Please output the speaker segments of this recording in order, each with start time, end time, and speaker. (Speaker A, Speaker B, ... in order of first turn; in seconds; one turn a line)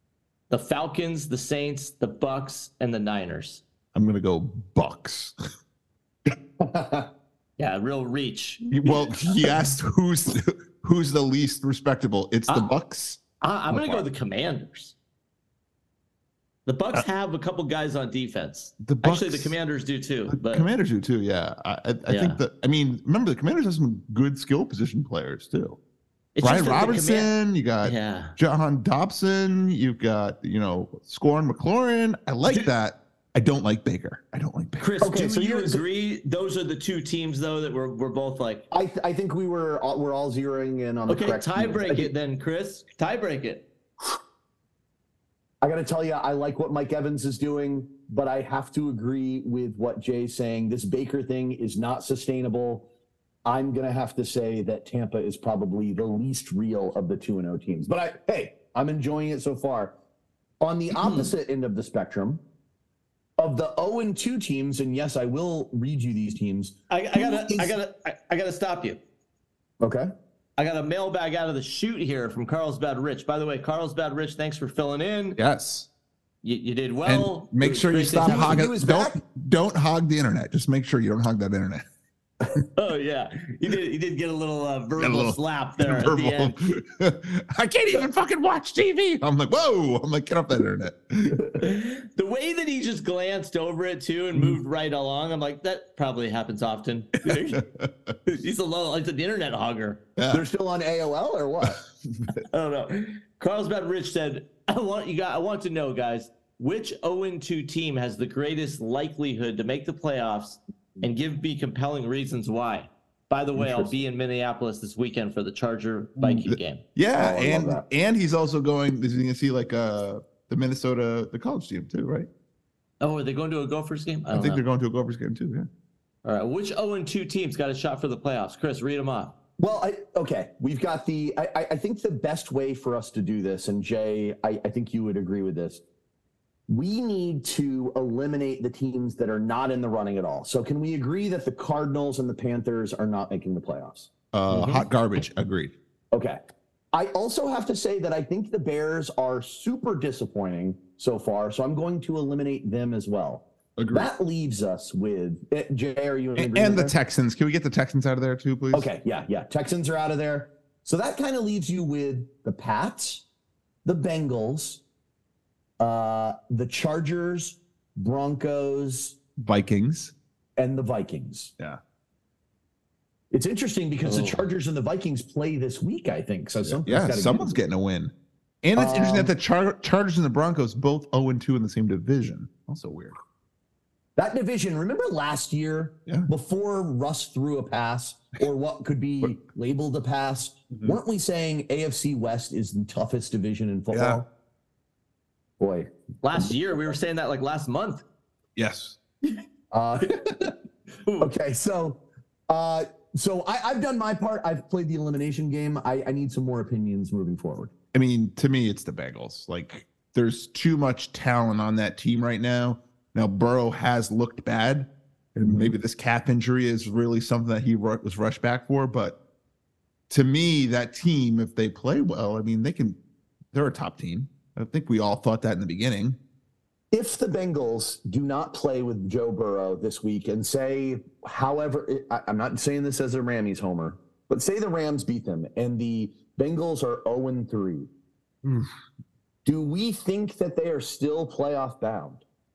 Speaker A: 0.5-3.6
Speaker B: 3.9-5.3
Speaker C: 6.6-7.1
Speaker A: 7.6-8.7
Speaker B: 8.7-14.1
Speaker A: 12.5-12.7
Speaker A: 13.4-14.9
Speaker A: 16.6-20.7
Speaker B: 18.8-19.6
Speaker B: 20.3-25.8
Speaker A: 22.1-22.4
Speaker A: 26.3-27.3
Speaker B: 26.4-34.9
Speaker A: 27.8-28.4
Speaker A: 32.5-32.7
Speaker A: 34.8-38.6
Speaker C: 35.0-35.8
Speaker C: 38.7-42.1
Speaker A: 41.1-43.6
Speaker C: 45.6-52.9
Speaker C: 53.4-59.9
Speaker C: 60.6-62.4
Speaker A: 61.0-61.3
Speaker C: 63.4-67.7
Speaker A: 66.9-69.0
Speaker C: 69.8-70.1
Speaker A: 70.6-75.4
Speaker B: 75.4-75.9
Speaker A: 76.4-78.6
Speaker B: 77.0-81.8
Speaker C: 78.2-79.2
Speaker A: 82.7-86.6
Speaker B: 85.0-91.4
Speaker A: 91.6-97.6
Speaker B: 97.3-98.2
Speaker A: 98.2-100.0
Speaker B: 100.2-100.4
Speaker C: 100.3-101.8
Speaker B: 101.6-102.2
Speaker A: 102.5-116.8
Speaker C: 113.5-113.9
Speaker B: 116.2-122.3
Speaker C: 117.2-117.8
Speaker A: 123.0-124.6
Speaker B: 124.3-125.7
Speaker A: 126.2-129.3
Speaker C: 129.6-135.8
Speaker C: 136.7-144.1
Speaker B: 144.3-145.7
Speaker A: 144.5-144.8
Speaker C: 146.1-146.4
Speaker C: 146.9-156.9
Speaker B: 153.8-154.1
Speaker B: 156.3-158.9
Speaker C: 158.7-163.2
Speaker C: 163.8-164.8
Speaker C: 165.8-169.2
Speaker B: 169.4-170.1
Speaker C: 170.6-171.5
Speaker C: 173.3-177.6
Speaker A: 174.0-174.5
Speaker B: 176.7-183.1
Speaker C: 178.8-179.3
Speaker C: 184.2-194.3
Speaker B: 190.7-191.0
Speaker B: 193.9-194.2
Speaker C: 195.6-196.5
Speaker A: 196.2-198.0
Speaker B: 198.6-199.0
Speaker C: 199.7-200.5
Speaker A: 201.0-201.3
Speaker C: 201.2-207.7
Speaker B: 207.9-219.2
Speaker C: 215.4-215.7
Speaker B: 220.1-223.0
Speaker B: 223.5-226.2
Speaker C: 226.9-237.9
Speaker C: 239.4-242.2